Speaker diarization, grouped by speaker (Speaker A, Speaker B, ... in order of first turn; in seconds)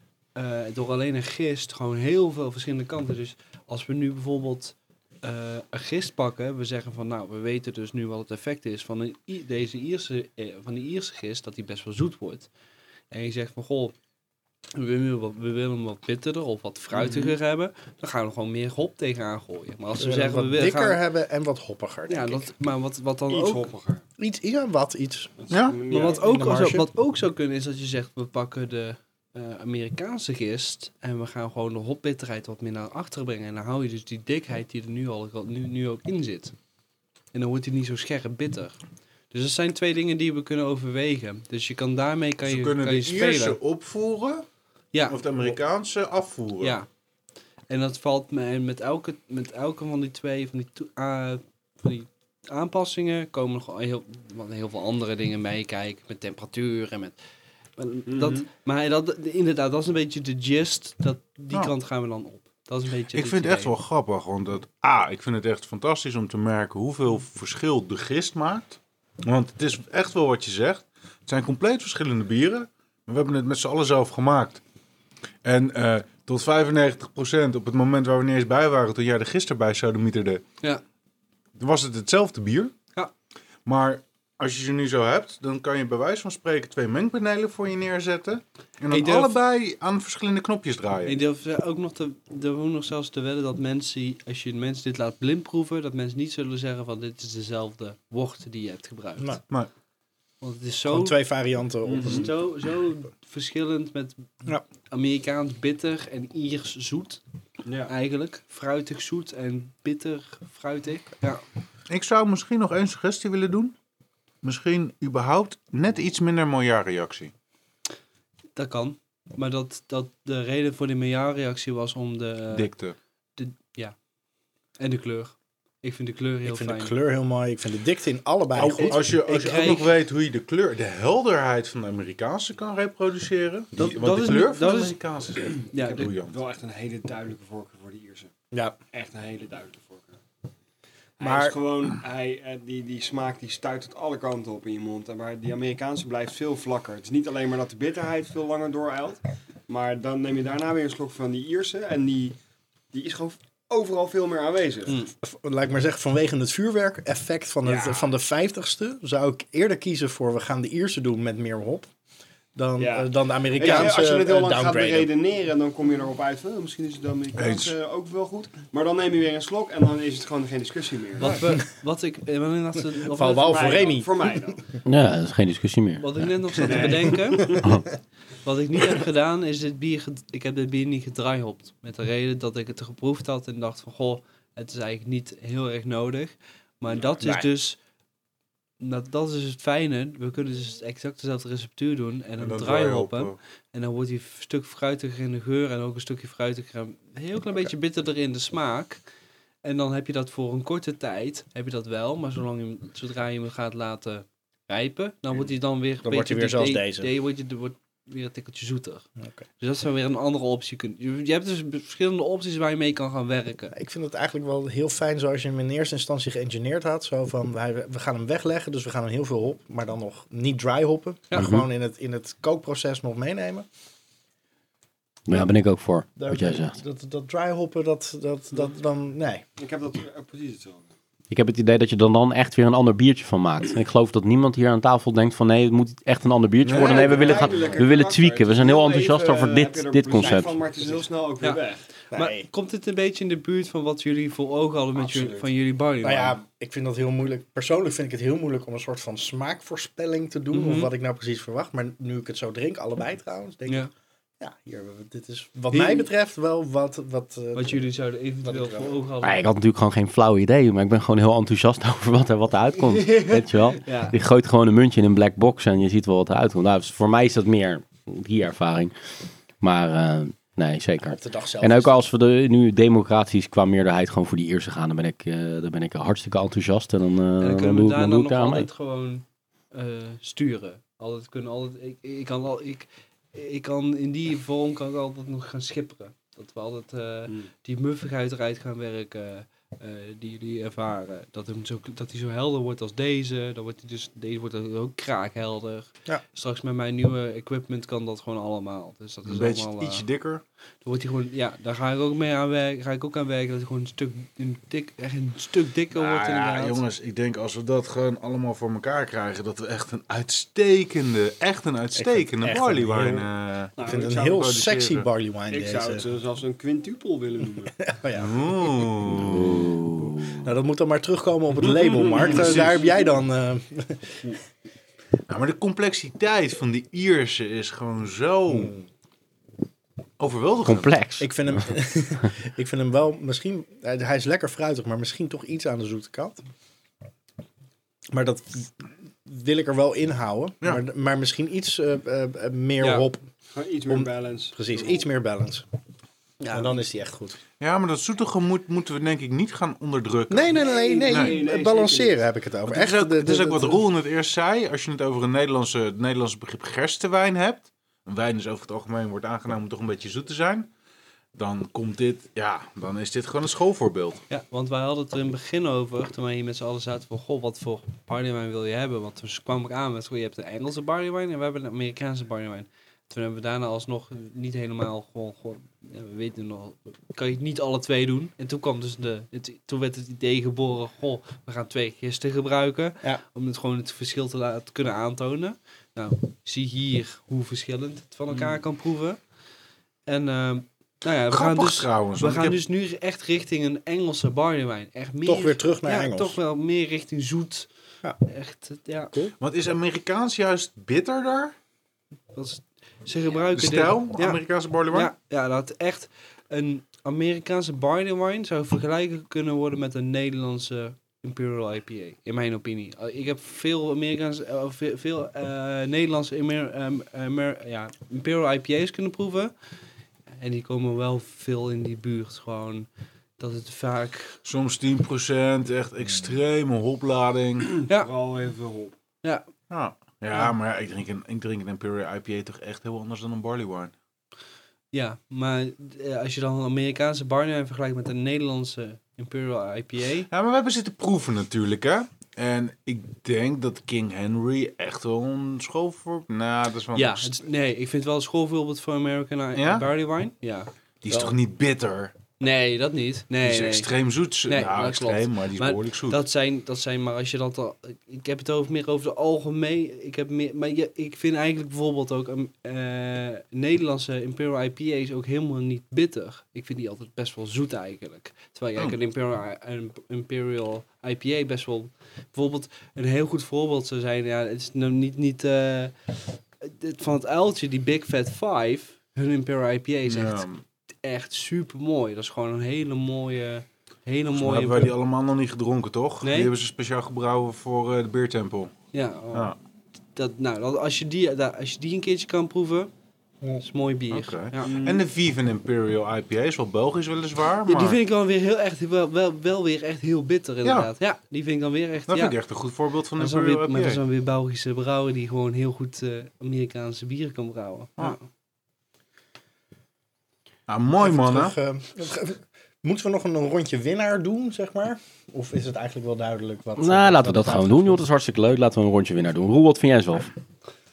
Speaker A: 0.3-12.5, 13.1-13.9, 14.8-21.0, 22.1-23.7, 25.9-36.5, 37.3-38.8, 39.3-43.6, 44.9-45.2, 46.6-46.9, 47.7-57.2, 57.8-63.8, 88.9-89.4, 91.1-99.4, 100.4-101.2, 101.9-104.3, 104.9-107.2, 107.9-111.4, 118.5-122.7, 123.4-124.0, 124.8-126.9, 128.8-129.9, 133.8-135.0, 135.7-136.1, 163.6-163.9, 171.2-173.8, 176.0-177.7, 178.4-187.8, 188.8-199.0, 199.6-209.1, 209.6-213.7, 241.4-246.4, 250.5-250.9, 255.7-256.1, 257.6-259.5, 262.8-264.2, 277.4-300.1, 300.8-306.8, 342.8-343.1, 346.4-346.8, 364.3-389.2, 390.1-397.7, 398.2-399.2, 402.3-419.5, 420.4-422.9, 423.4-424.4, 434.9-440.3, 446.9-450.7, 452.4-453.9, 454.4-480.5, 481.0-484.9, 486.2-486.5, 488.9-489.6, 490.1-492.9, 493.6-494.9, 497.7-502.4, 503.2-508.2
Speaker B: 16.9-17.4, 23.3-24.0, 25.4-26.3, 58.1-58.5, 101.8-102.3, 107.7-107.9, 135.8-138.3, 138.9-140.2, 141.2-152.4, 152.9-155.0, 157.6-158.1, 162.8-171.4, 173.4-174.7, 176.6-177.7, 229.6-230.9, 236.7-241.8, 245.0-245.5, 312.4-314.5, 315.5-317.9, 321.8-322.7, 343.5-345.1, 350.5-352.2, 428.0-429.0, 494.6-495.1
Speaker C: 20.0-22.5, 24.2-25.3, 25.9-26.9, 100.9-102.3, 126.5-129.2, 138.5-138.8, 141.2-141.5, 155.2-161.9, 162.6-165.1, 173.1-174.4, 206.0-207.1, 213.7-223.7, 226.2-229.4, 240.2-241.1, 242.1-242.5, 246.0-253.9, 254.4-257.8, 258.4-258.9, 271.0-272.0, 312.0-312.7, 313.8-316.1, 317.8-318.9, 320.0-324.4, 328.5-328.8, 331.2-336.4, 338.1-343.2, 343.9-345.7, 346.5-347.4, 350.3-353.8, 395.2-396.4, 510.9-518.0
Speaker D: 25.5-25.8, 42.4-44.5, 45.1-46.8, 63.1-74.6, 75.4-80.4, 81.6-82.7, 83.7-91.2, 111.9-113.7, 114.4-117.3, 122.5-123.0, 128.6-136.4, 167.4-167.7, 192.4-193.4, 236.6-237.8, 299.2-300.4, 305.9-313.7, 314.3-315.1, 318.1-319.8, 322.1-322.9, 325.3-328.8, 330.2-331.0, 347.6-351.4, 352.7-360.7, 361.4-364.2, 391.3-392.6, 399.4-401.6, 403.5-405.1, 424.4-427.8, 429.7-433.9, 440.3-447.4, 449.5-449.9, 451.0-452.3, 453.4-456.2, 480.1-480.6, 484.3-488.7, 494.1-498.0, 500.6-500.9, 502.1-504.0, 510.7-511.6
Speaker E: 174.8-176.1, 221.4-221.6, 225.3-226.8, 231.3-240.6, 259.2-268.9, 269.6-278.7, 319.1-320.4, 330.6-331.6, 516.8-520.3